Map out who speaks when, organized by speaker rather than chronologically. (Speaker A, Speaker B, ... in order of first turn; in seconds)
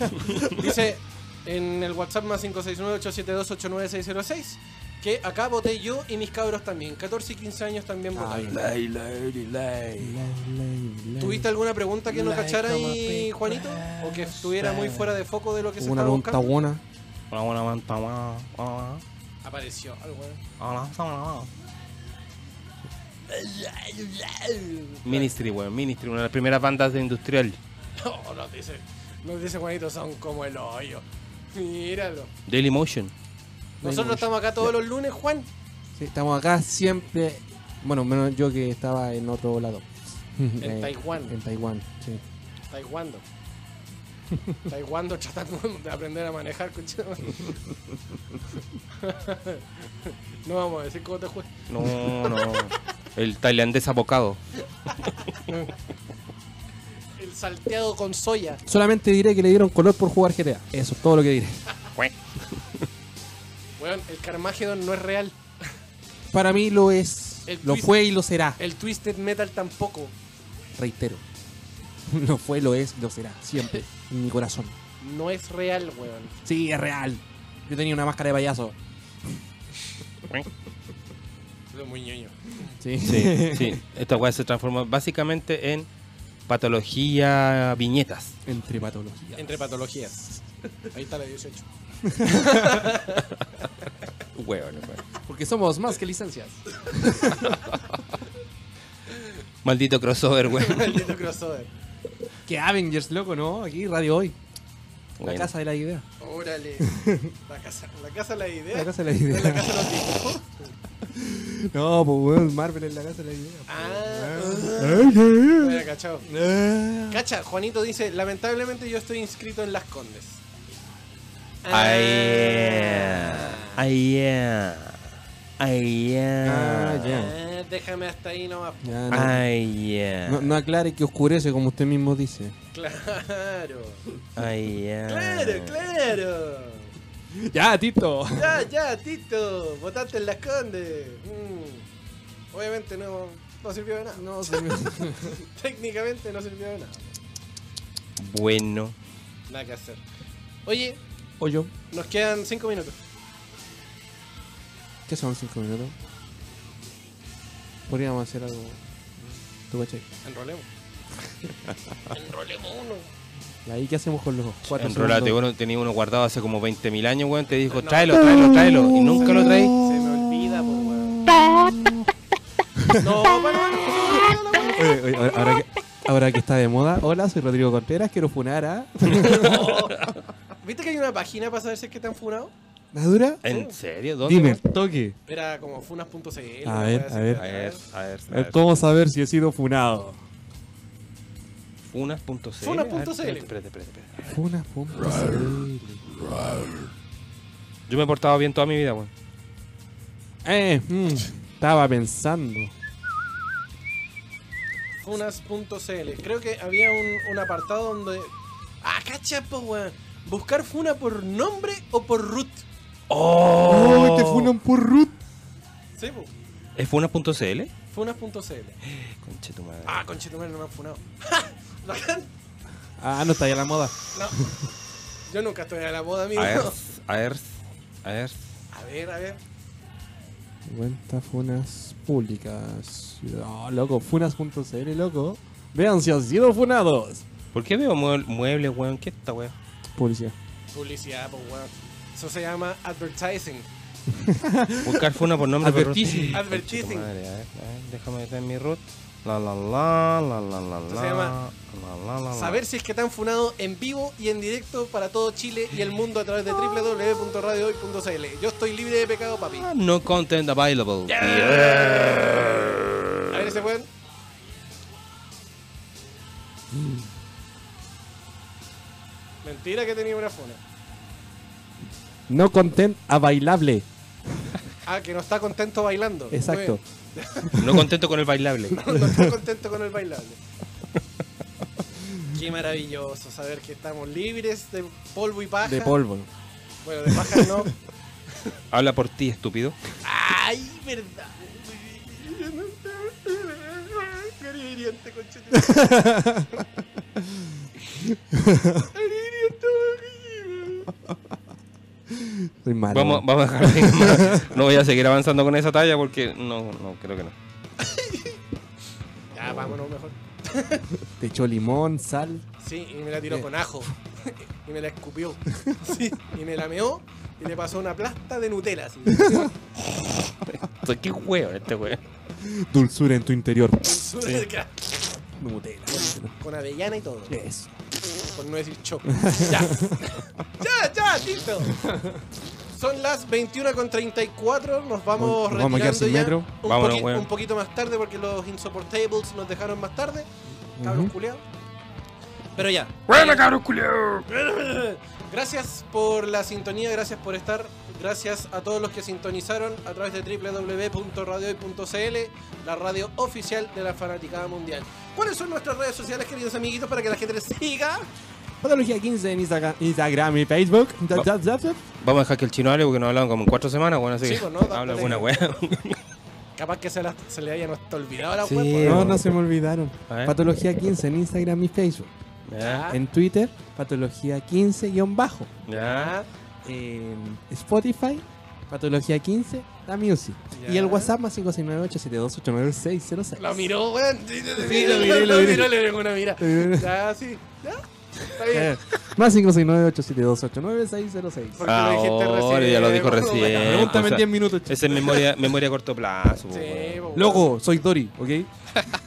Speaker A: 0.1-0.4, 8.5-10.3, 12.1-15.2, 17.3-19.0, 20.6-21.5, 25.0-27.6, 32.5-33.1, 51.7-54.4, 83.0-85.9, 86.5-88.3, 94.3-95.1, 99.6-101.1, 105.2-105.5, 121.7-125.0, 125.6-127.2, 129.1-130.5, 134.3-135.8, 148.2-148.9, 164.7-169.7, 183.4-184.6, 187.4-188.6, 191.8-194.3, 197.9-199.1, 213.1-214.5, 216.8-217.7, 218.9-220.0, 226.3-228.5, 237.5-239.5, 244.8-252.6, 259.6-262.9, 277.6-278.8, 288.7-289.8, 302.9-307.3, 319.9-322.0, 336.6-337.3, 343.1-344.2, 362.0-366.0, 368.4-369.2, 370.1-370.4, 372.5-372.9, 375.7-376.1, 391.6-397.1
Speaker B: 0.4-8.6, 11.2-16.5, 19.4-20.4, 23.4-25.3, 28.0-32.3, 33.8-35.5, 40.6-41.4, 42.7-43.2, 44.7-47.5, 49.0-51.5, 55.3-55.7, 57.2-58.6, 63.8-65.4, 67.5-68.0, 68.6-70.1, 75.0-76.3, 81.7-82.4, 89.3-91.7, 92.2-93.3, 100.5-101.7, 106.2-106.9, 107.5-110.7, 113.7-116.3, 117.1-120.4, 121.6-123.8, 127.1-129.3, 132.7-134.0, 135.1-136.9, 138.3-141.8, 142.5-147.1, 149.5-150.0, 150.7-151.0, 151.9-152.9, 160.2-160.7, 162.1-163.1, 167.7-171.2, 172.9-175.4, 179.1-180.1, 180.6-182.5, 183.4-183.8, 185.3-187.8, 192.6-193.5, 205.0-212.6, 216.0-216.3, 217.9-218.8, 219.8-222.3, 225.3-226.8, 228.7-229.4, 240.7-243.7, 246.3-247.1, 250.9-251.3, 252.3-259.7, 261.1-263.9, 269.4-270.6, 274.9-277.6, 278.8-280.4, 282.3-286.0, 286.8-287.7, 290.0-296.1, 298.8-300.9, 307.8-308.3, 309.3-310.8, 312.6-319.5, 323.8-324.7, 326.4-327.4, 328.3-331.8, 332.7-341.4, 342.6-343.4, 344.3-358.1, 364.2-365.4, 366.6-369.2, 372.6-373.0, 375.7-376.3, 380.5-381.1, 383.4-388.8, 391.6-394.2, 396.5-397.5
Speaker C: 8.1-8.8, 10.0-11.5, 15.8-16.8, 33.8-34.7, 36.0-42.2, 58.6-61.6, 66.3-68.6, 70.8-71.2, 72.1-74.7, 76.4-78.8, 82.6-83.8, 88.5-89.6, 92.0-92.8, 95.2-97.6, 102.5-104.3, 105.2-106.0, 106.8-107.3, 108.7-110.4, 111.0-117.2, 126.4-127.3, 128.8-129.4, 130.2-132.6, 137.3-138.7, 144.1-145.4, 151.4-151.7, 155.1-155.9, 157.9-160.0, 163.6-165.4, 169.2-170.2, 171.5-172.0, 172.8-173.2, 174.7-179.7, 182.9-183.4, 184.2-185.2, 186.6-187.4, 188.3-190.2, 194.3-196.2, 200.4-202.7, 213.6-215.2, 223.0-224.6, 230.6-237.2, 239.9-240.3, 244.1-246.4, 272.3-273.9, 276.3-276.8, 285.6-286.3, 287.1-287.7, 295.5-296.5, 298.1-298.8, 302.1-304.5, 311.2-312.4, 319.1-319.5, 322.4-324.0, 325.4-326.3, 327.3-327.7, 329.1-330.0, 331.8-332.1, 335.1-336.5, 340.8-341.1, 358.6-361.8, 368.8-372.1, 372.9-375.5, 376.6-383.7, 384.6-386.9, 388.4-391.6, 393.5-395.1, 397.1-398.5